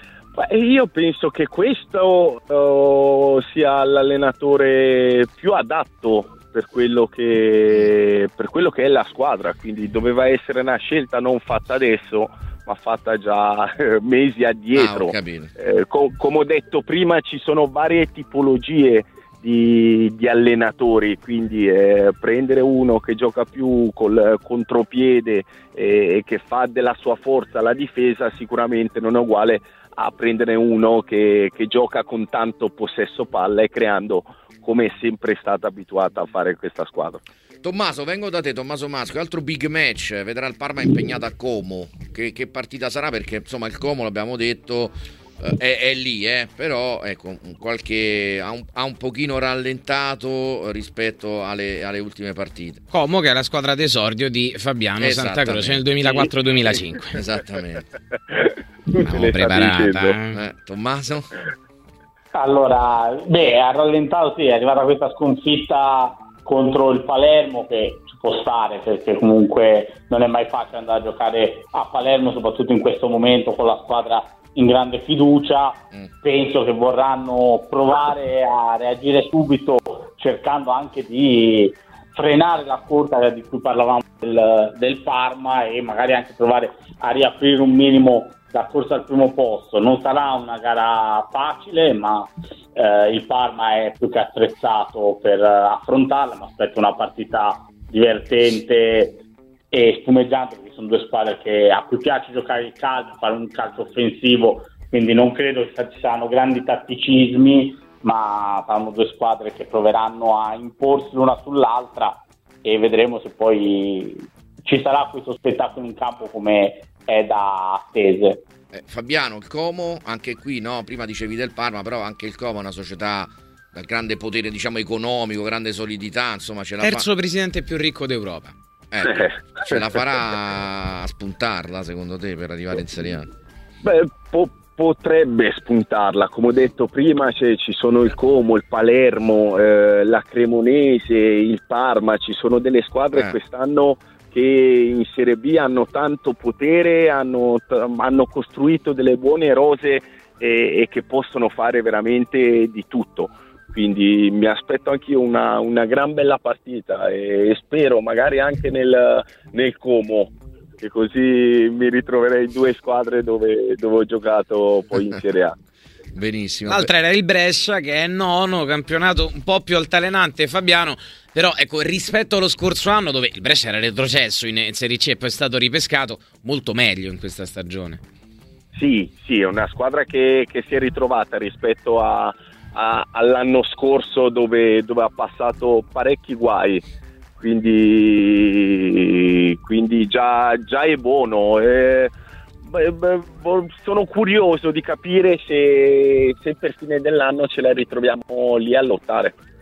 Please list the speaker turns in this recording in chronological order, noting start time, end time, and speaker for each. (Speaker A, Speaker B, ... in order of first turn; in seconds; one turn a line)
Speaker A: 0.3-37.2
Speaker B: 14.8-15.5
Speaker B: 37.6-52.8
Speaker C: 52.9-57.2
Speaker B: 55.0-55.8
Speaker B: 57.1-57.9
Speaker A: 58.3-60.2
Speaker C: 59.0-60.4
Speaker B: 60.3-61.3
Speaker D: 62.3-99.2
Speaker D: 99.7-118.4
Speaker B: 118.7-127.1
Speaker C: 126.8-128.5
Speaker B: 128.9-133.3
Speaker A: 129.0-129.7
Speaker A: 133.8-165.6
Speaker B: 166.1-166.9
Speaker C: 166.7-178.0
Speaker A: 178.7-186.8
Speaker A: 187.4-192.1
Speaker A: 192.6-199.4